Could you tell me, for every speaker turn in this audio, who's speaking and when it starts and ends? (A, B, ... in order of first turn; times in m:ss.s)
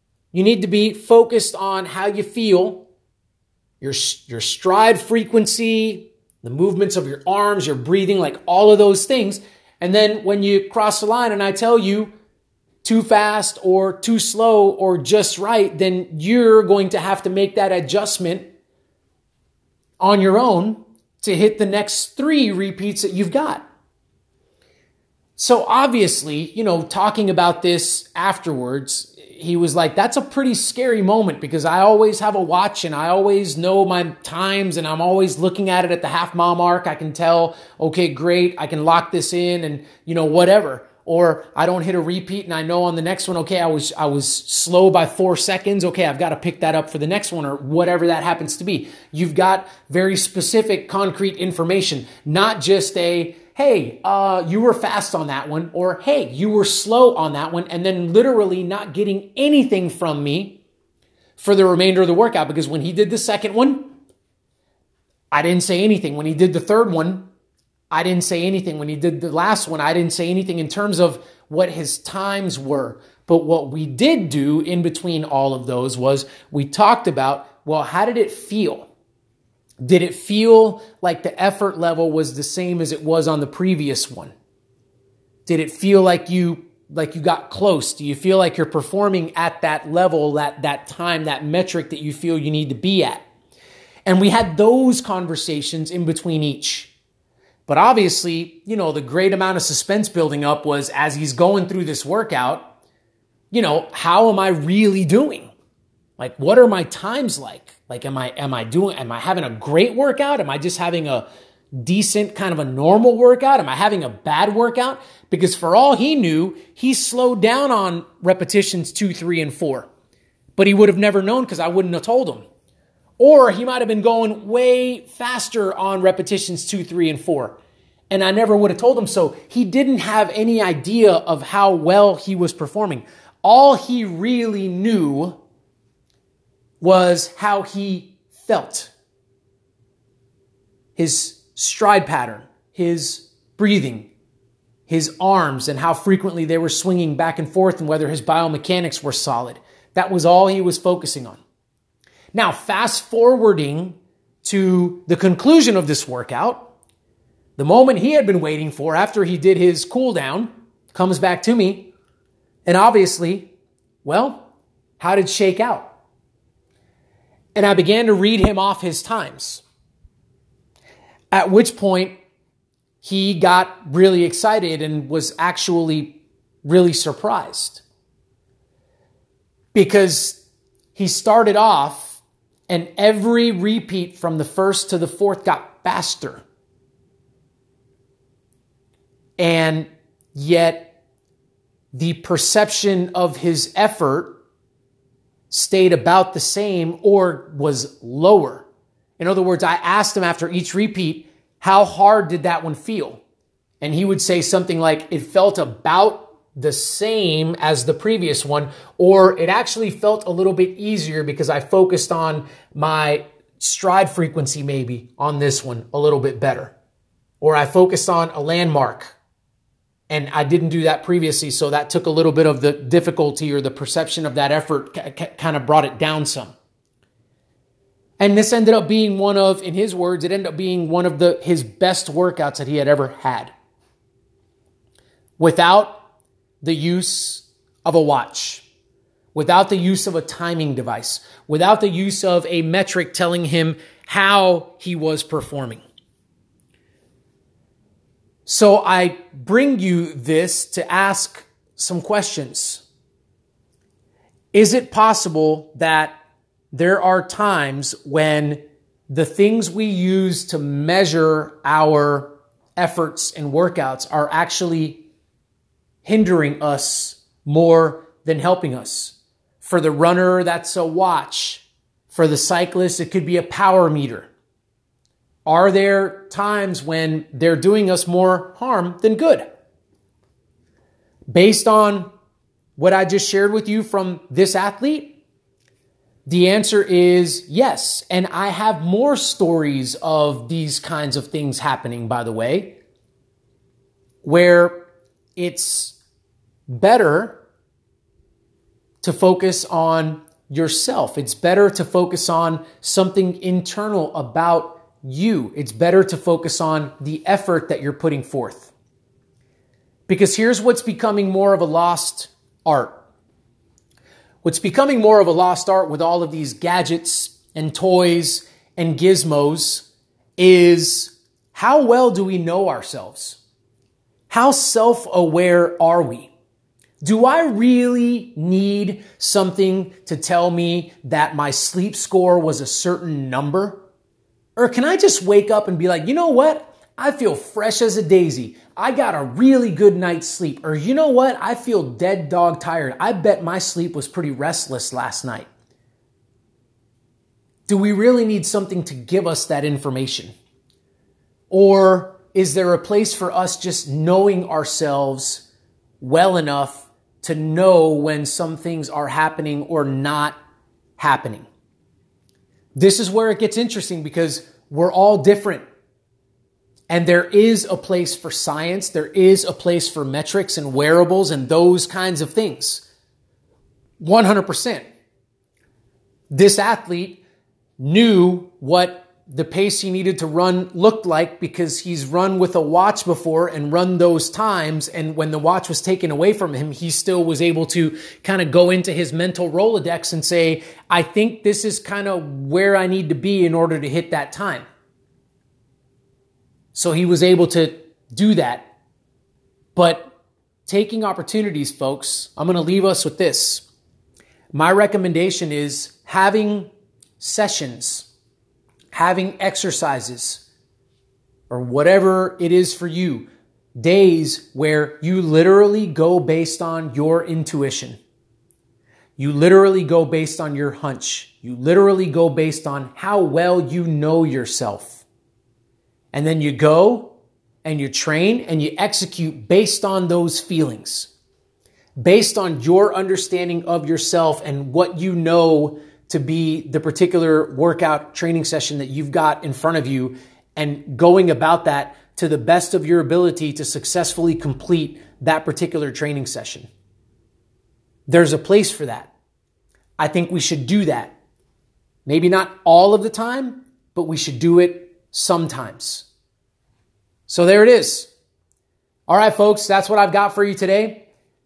0:00.3-0:02.9 A
0:03.8-0:12.1 A
0:12.8-0:18.5 A
0:20.0-0:23.6 A
0:25.4-1:00.6 A
1:01.4-1:03.9 A
1:05.3-1:07.3 A
1:07.9-1:18.9 A
1:19.8-1:24.3 A
1:25.5-1:33.2 A
1:34.1-1:36.9 A
1:37.7-1:42.7 A
1:43.5-1:45.5 A
1:46.2-1:59.9 A
2:00.6-2:02.4 A
2:03.2-2:07.6 A
2:08.1-2:15.4 A
2:16.8-2:18.9 A
2:21.0-2:24.1 A
2:24.9-2:31.4 A
2:32.3-2:36.7 A
2:37.6-2:41.9 A
2:42.7-2:43.5 A
2:44.0-2:44.5 A
2:45.0-2:45.9 A
2:47.6-2:49.6 A
2:51.3-2:52.1 A
2:53.0-2:57.8 A
2:59.7-3:00.4 A
3:01.0-3:06.4 A
3:09.4-3:11.0 A
3:11.9-3:14.4 A
3:15.5-3:18.7 A
3:19.2-3:23.2 A
3:23.8-3:36.7 A
3:37.4-3:39.2 A
3:40.1-3:46.5 A
3:48.2-3:53.5 A
3:55.4-3:56.0 A
3:56.6-3:58.7 A
3:59.4-4:05.8 A
4:08.5-4:12.8 A
4:14.5-4:16.1 A
4:16.7-4:25.0 A
4:26.0-4:34.3 A
4:35.5-4:39.4 A
4:41.3-4:42.1 A
4:42.8-4:45.2 A
4:46.3-4:52.8 A
4:54.2-4:54.8 A
4:55.4-4:56.0 A
4:56.7-4:57.4 A
4:59.0-5:08.7 A
5:10.1-5:13.0 A
5:14.4-5:23.4 A
5:24.3-5:26.3 A
5:27.0-5:33.8 A
5:34.6-5:45.5 A
5:47.7-5:50.3 A
5:51.5-5:55.4 A
5:56.0-6:00.4 A
6:01.0-6:01.5 A
6:02.8-6:05.6 A
6:06.9-6:12.9 A
6:14.0-6:14.8 A
6:16.3-6:17.2 A
6:17.8-6:34.7 A
6:36.7-6:38.7 A
6:39.8-6:40.1 A
6:40.7-6:43.7 A
6:44.5-6:48.1 A
6:48.9-6:50.4 A
6:51.5-6:58.0 A
6:59.2-7:05.0 A
7:06.1-7:07.1 A
7:07.6-7:11.1 A
7:12.0-7:26.7 A
7:28.1-7:29.1 A
7:30.0-7:31.2 A
7:32.1-7:36.1 A
7:37.3-7:38.1 A
7:39.1-7:41.0 A